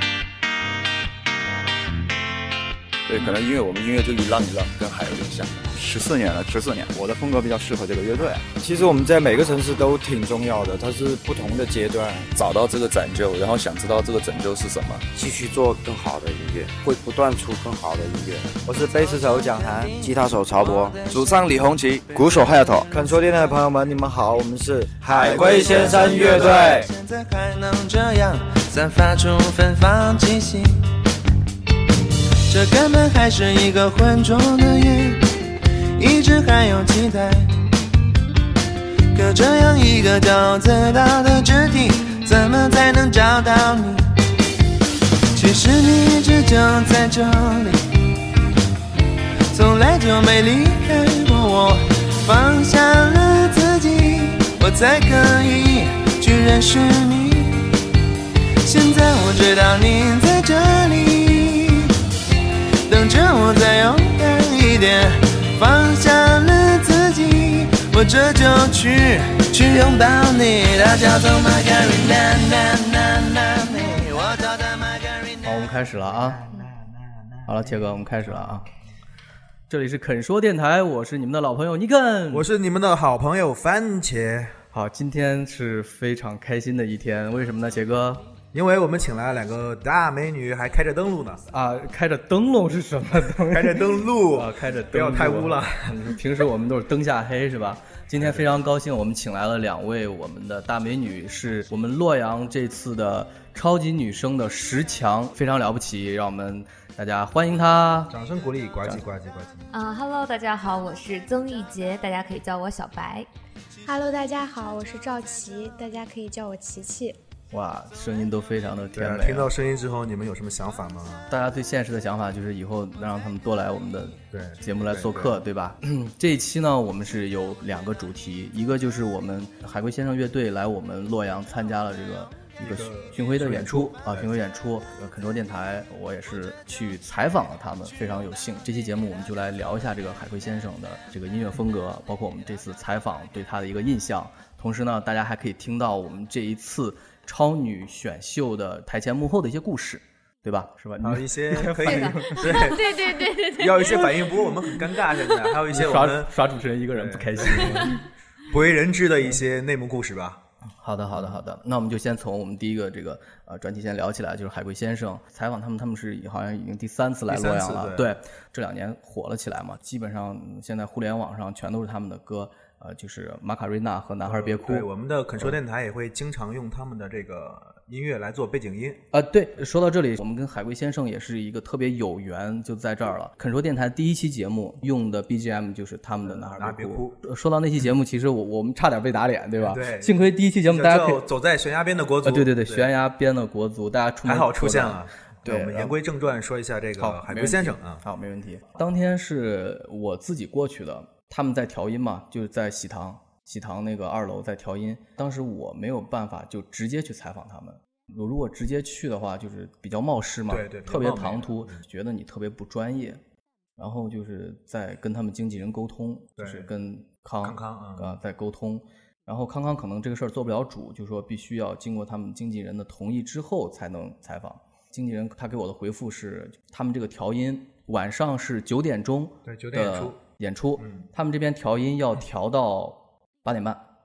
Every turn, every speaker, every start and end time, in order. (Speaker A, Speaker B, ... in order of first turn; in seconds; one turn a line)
Speaker A: 3.1-5.6
Speaker B: 5.8-8.5
Speaker C: 8.6-12.3
Speaker A: 12.3-15.1
Speaker D: 15.1-18.5
Speaker C: 18.6-20.0
Speaker D: 20.0-21.0
Speaker A: 21.1-22.2
Speaker C: 22.1-26.9
Speaker B: 22.4-22.9
Speaker E: 25.1-30.8
Speaker E: 32.5-35.3
Speaker E: 36.0-37.5
Speaker E: 39.1-44.1
Speaker E: 45.4-47.8
Speaker E: 49.5-57.7
Speaker E: 58.6-61.9
Speaker E: 62.9-75.5
Speaker F: 75.4-76.4
Speaker G: 76.0-78.7
Speaker F: 77.5-78.7
Speaker F: 79.7-82.5
Speaker G: 82.3-84.6
Speaker F: 84.7-88.2
Speaker G: 88.5-91.5
Speaker F: 91.5-108.2
Speaker G: 93.5-95.9
Speaker G: 98.2-98.5
Speaker G: 108.1-109.7
Speaker H: 109.7-113.3
Speaker I: 113.8-117.2
Speaker F: 117.5-119.5
Speaker G: 119.0-121.3
Speaker F: 121.3-152.5
Speaker G: 124.3-125.4
Speaker G: 132.6-134.4
Speaker G: 151.0-153.0
Speaker H: 151.8-153.5
Speaker I: 152.6-154.7
Speaker G: 153.6-156.4
Speaker F: 155.7-158.0
Speaker G: 156.9-160.4
Speaker F: 160.8-175.6
Speaker G: 161.1-161.4
Speaker G: 167.3-168.1
Speaker G: 174.2-179.0
Speaker F: 179.1-191.2
Speaker G: 186.2-187.2
Speaker G: 189.6-192.9
Speaker F: 192.2-196.0
Speaker G: 194.3-198.0
Speaker F: 197.0-213.2
Speaker G: 210.5-211.8
Speaker F: 213.8-233.8
Speaker G: 216.4-216.7
Speaker G: 217.4-218.2
Speaker G: 229.5-230.2
Speaker G: 230.8-231.1